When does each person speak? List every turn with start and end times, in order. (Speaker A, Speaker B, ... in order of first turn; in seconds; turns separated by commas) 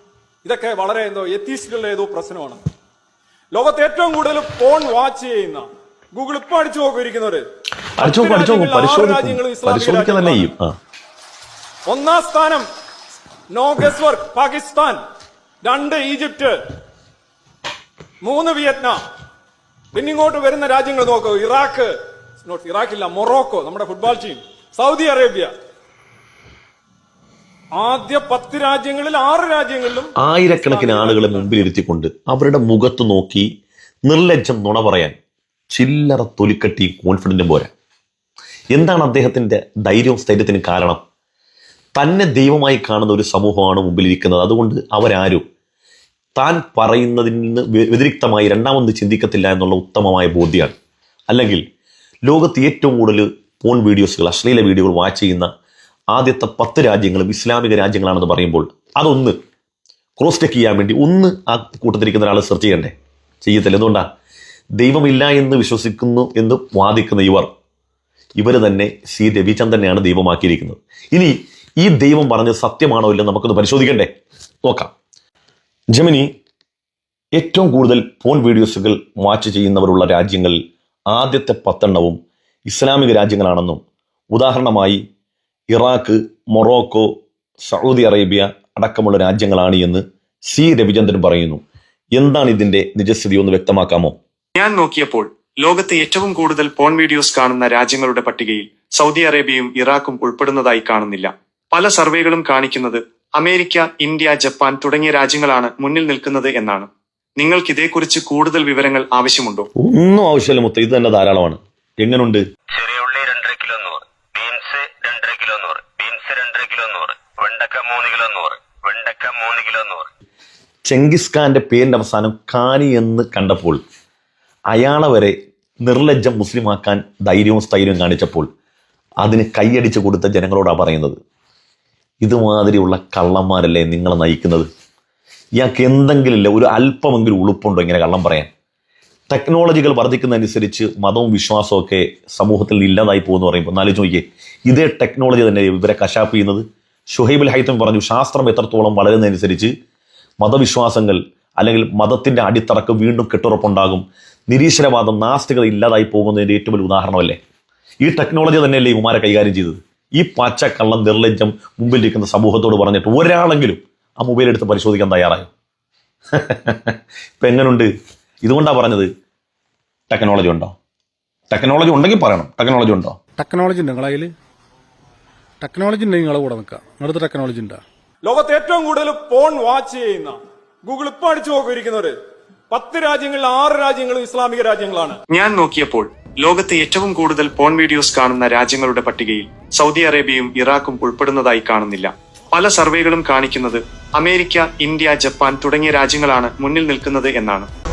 Speaker A: 0.4-2.6, Speaker A: 3.5-7.4, Speaker B: 8.0-10.7, Speaker A: 8.0-10.5, Speaker A: 11.9-12.6, Speaker A: 13.5-15.0, Speaker A: 15.6-16.6, Speaker A: 18.2-19.0, Speaker A: 19.9-21.9, Speaker A: 22.4-25.5, Speaker A: 27.7-31.5, Speaker B: 30.2-33.5, Speaker B: 34.0-35.1, Speaker B: 35.7-37.7, Speaker B: 38.7-41.0, Speaker B: 41.9-45.4, Speaker B: 46.4-50.7, Speaker B: 51.3-51.6, Speaker B: 52.2-55.5, Speaker B: 56.1-59.4, Speaker B: 60.2-64.0, Speaker B: 64.8-67.5, Speaker B: 68.4-74.1, Speaker B: 74.6-74.9, Speaker B: 75.9-76.3, Speaker B: 77.3-80.6, Speaker B: 81.1-85.0, Speaker B: 85.7-91.6, Speaker B: 92.1-94.1, Speaker C: 94.5-109.7, Speaker B: 109.8-112.4, Speaker D: 112.7-120.1, Speaker B: 120.8-123.8, Speaker B: 124.7-128.5, Speaker B: 129.2-131.2, Speaker B: 132.2-134.7, Speaker B: 135.6-138.5, Speaker B: 139.3-149.7, Speaker B: 150.4-157.4, Speaker B: 158.0-165.5, Speaker B: 166.3-167.9, Speaker B: 168.4-169.1, Speaker B: 170.1-170.7, Speaker B: 171.5-173.2, Speaker E: 173.4-174.3, Speaker E: 175.6-177.8, Speaker A: 178.2-182.1, Speaker A: 182.7-185.2, Speaker C: 185.3-197.7